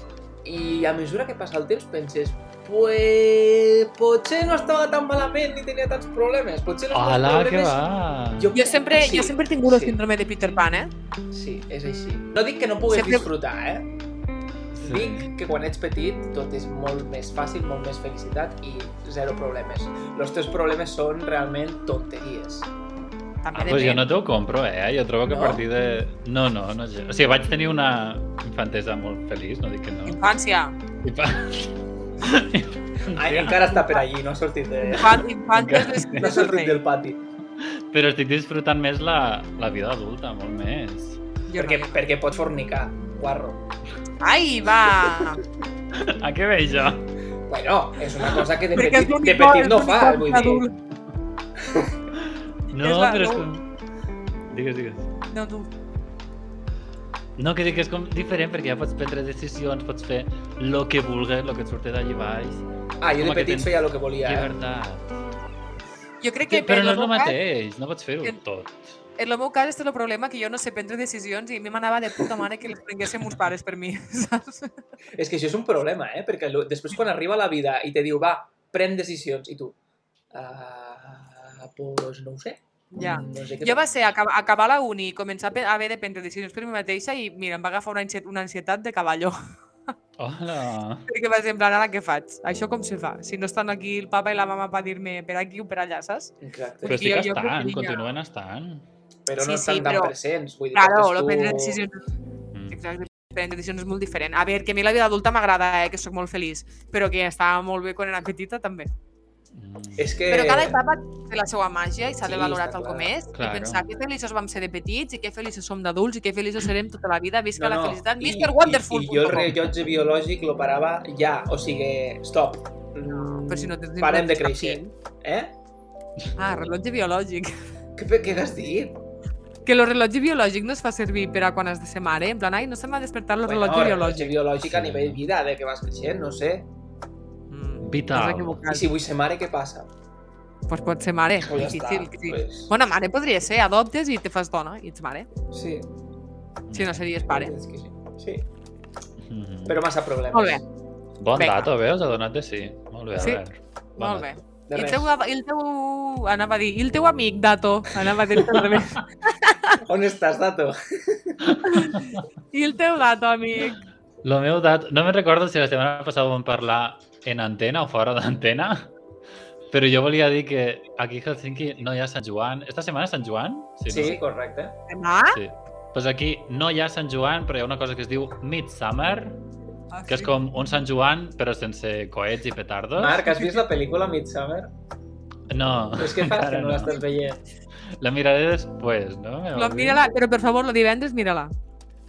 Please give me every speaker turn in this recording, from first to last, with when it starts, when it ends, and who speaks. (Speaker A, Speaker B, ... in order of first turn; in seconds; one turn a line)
Speaker A: 0.4-7.8
Speaker B: 6.9-8.5
Speaker A: 8.4-10.0
Speaker C: 8.5-10.9
Speaker A: 11.3-13.9
Speaker C: 12.9-13.3
Speaker B: 14.7-15.3
Speaker A: 14.8-22.7
Speaker C: 23.4-24.1
Speaker B: 23.6-30.2
Speaker A: 23.6-23.9
Speaker A: 25.3-25.6
Speaker C: 30.1-30.8
Speaker B: 31.0-33.7
Speaker A: 33.1-35.3
Speaker C: 34.9-36.8
Speaker B: 35.5-36.3
Speaker A: 36.2-37.2
Speaker B: 37.6-41.2
Speaker C: 41.5-42.0
Speaker A: 41.6-43.6
Speaker C: 44.2-45.4
Speaker B: 45.9-47.1
Speaker A: 47.5-50.7
Speaker C: 48.8-50.7
Speaker A: 51.6-52.0
Speaker B: 52.2-53.6
Speaker C: 52.7-53.5
Speaker B: 54.5-55.1
Speaker C: 55.3-55.7
Speaker B: 57.4-62.6
Speaker A: 63.0-64.5
Speaker B: 63.2-65.2
Speaker C: 66.2-67.4
Speaker B: 66.5-69.0
Speaker C: 69.2-74.7
Speaker A: 75.2-79.8
Speaker A: 80.3-83.8
Speaker C: 82.9-89.4
Speaker B: 90.2-91.0
Speaker C: 91.1-98.1
Speaker A: 96.4-97.1
Speaker B: 96.9-98.8
Speaker A: 99.3-101.8
Speaker C: 99.4-100.2
Speaker C: 100.7-102.0
Speaker B: 102.5-102.8
Speaker C: 102.7-108.9
Speaker B: 109.5-110.1
Speaker A: 110.0-110.8
Speaker C: 110.3-119.5
Speaker A: 112.2-113.1
Speaker B: 113.3-113.9
Speaker A: 117.6-125.5
Speaker C: 123.0-124.9
Speaker C: 126.4-127.5
Speaker A: 128.0-129.0
Speaker C: 129.7-134.4
Speaker A: 133.4-136.7
Speaker B: 134.6-135.2
Speaker C: 137.5-138.9
Speaker B: 137.8-138.6
Speaker A: 138.7-139.9
Speaker C: 140.7-145.3
Speaker A: 141.4-142.7
Speaker A: 145.5-145.9
Speaker B: 146.7-147.1
Speaker C: 146.7-147.5
Speaker A: 147.2-148.4
Speaker B: 149.3-149.8
Speaker A: 149.7-150.6
Speaker C: 150.3-150.6
Speaker B: 151.2-154.3
Speaker C: 151.3-151.7
Speaker C: 153.2-153.4
Speaker C: 154.0-159.8
Speaker A: 154.7-155.1
Speaker A: 159.8-161.4
Speaker B: 161.5-162.0
Speaker C: 161.7-163.8
Speaker B: 164.2-168.9
Speaker B: 169.7-174.2
Speaker A: 173.9-174.8
Speaker C: 174.9-175.4
Speaker B: 175.3-179.4
Speaker C: 179.9-180.3
Speaker B: 180.1-183.3
Speaker A: 183.0-184.7
Speaker B: 185.5-187.0
Speaker A: 186.0-187.4
Speaker B: 188.0-190.0
Speaker C: 189.5-191.5